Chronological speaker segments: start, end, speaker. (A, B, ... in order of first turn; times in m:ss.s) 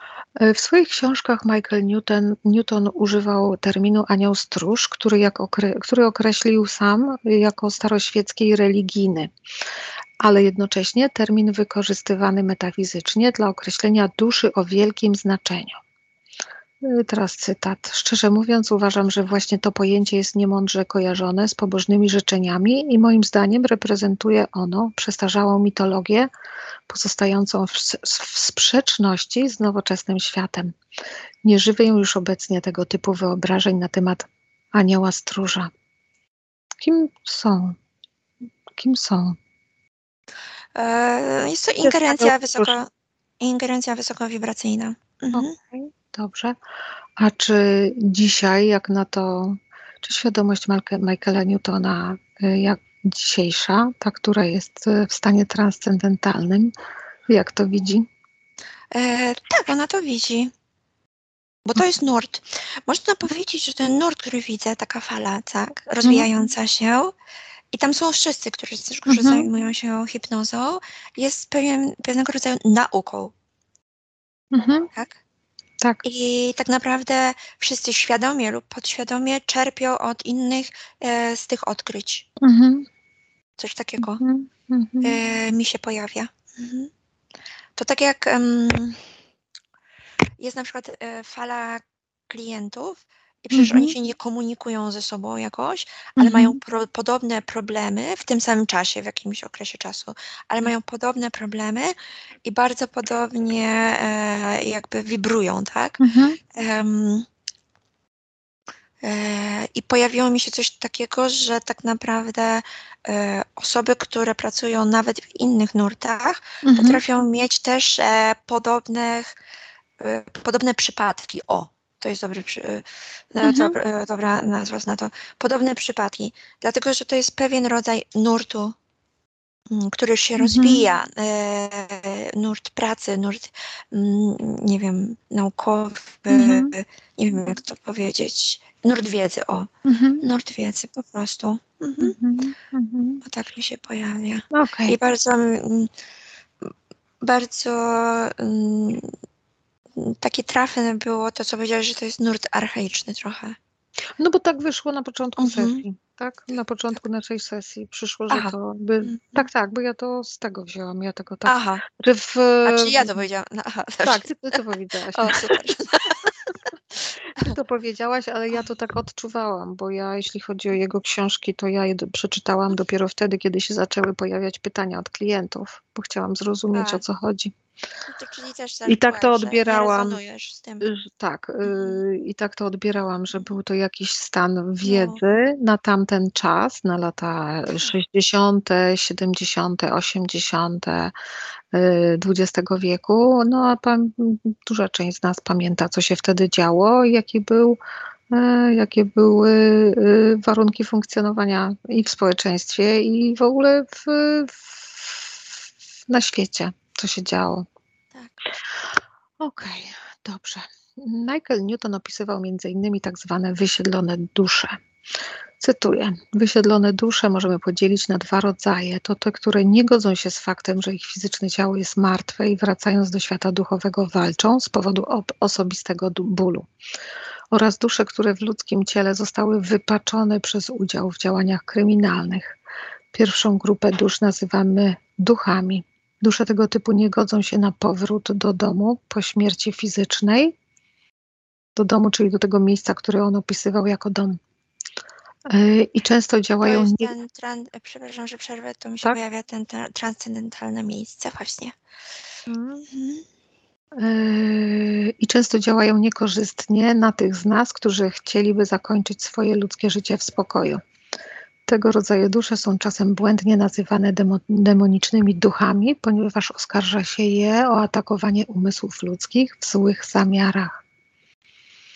0:00.4-0:09.3 A
0:10.2-0:15.8 A
0:16.8-0:26.3 A
0:26.9-0:30.8 A
0:31.4-0:35.7 A
0:36.8-0:37.8 A
0:38.8-0:39.4 A
0:40.7-0:42.9 B
0:41.8-0:42.7 A
0:43.4-0:45.5 B
0:45.3-0:46.6 A
0:47.2-0:56.7 A
0:57.3-0:58.1 A
0:58.9-1:00.5 B
1:01.6-1:07.1 B
1:07.7-1:13.3 B
1:09.1-1:09.5 A
1:14.5-1:14.9 A
1:16.0-1:22.2 B
1:22.4-1:22.9 A
1:23.6-1:24.2 B
1:24.0-1:25.2 A
1:25.0-1:26.9 B
1:27.8-1:29.0 B
1:30.4-1:46.0 B
1:33.5-1:33.9 A
1:36.2-1:36.6 A
1:46.0-1:46.4 A
1:46.5-1:47.3 B
1:49.0-1:59.4 B
1:56.6-1:57.0 A
2:00.0-2:08.8 B
2:03.4-2:03.8 A
2:09.7-2:19.7 B
2:10.4-2:10.8 A
2:16.3-2:16.7 A
2:19.8-2:20.2 A
2:20.2-2:22.2 B
2:22.0-2:23.2 A
2:23.2-2:25.9 B
2:24.5-2:25.0 A
2:27.2-2:29.1 B
2:30.0-2:33.6 B
2:34.2-2:43.1 A
2:35.4-2:35.8 B
2:39.0-2:39.4 B
2:41.4-2:41.8 B
2:42.6-2:44.5 B
2:44.0-2:45.7 A
2:45.1-2:46.2 B
2:47.3-2:57.5 A
2:56.7-2:57.0 B
2:58.1-3:00.9 B
2:58.8-3:00.2 A
3:00.8-3:11.1 A
3:01.6-3:02.0 B
3:04.8-3:05.2 B
3:11.7-3:17.8 A
3:18.3-3:25.4 A
3:26.1-3:27.7 A
3:29.4-3:34.8 A
3:35.6-3:46.7 A
3:47.5-3:52.6 A
3:53.1-4:00.5 A
4:01.8-4:04.4 A
4:05.5-4:07.1 A
4:06.6-4:11.8 B
4:12.5-4:12.9 A
4:12.9-4:13.2 B
4:14.0-4:20.8 A
4:21.7-4:30.8 A